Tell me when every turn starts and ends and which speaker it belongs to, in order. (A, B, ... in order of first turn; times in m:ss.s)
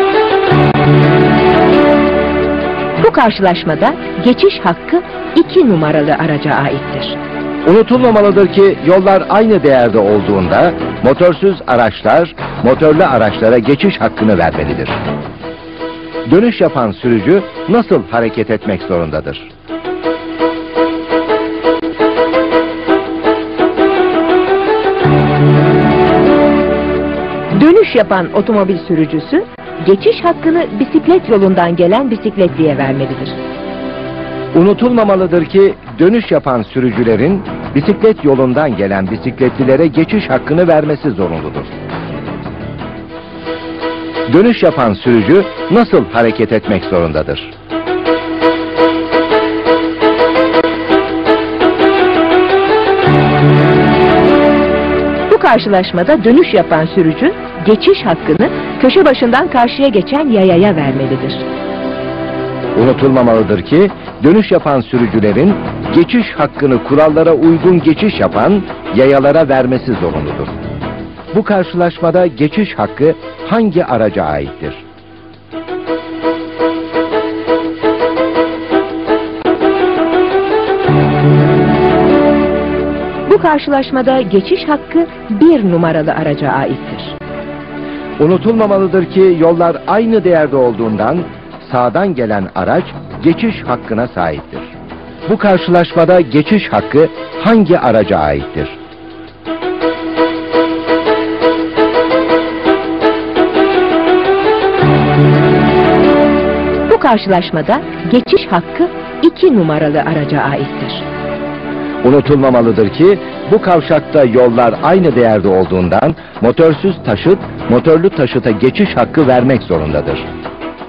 0:03.0-0:07.2 A
0:07.6-0:15.0 B
0:16.3-0:19.5 B
0:27.5-0:33.4 A
0:34.5-0:41.7 B
0:44.3-0:47.5 B
0:55.3-1:01.4 A
1:02.8-1:10.6 B
1:11.3-1:14.8 B
1:23.3-1:27.2 A
1:28.2-1:34.7 B
1:35.3-1:38.8 B
1:46.9-1:51.0 A
1:52.0-2:00.3 B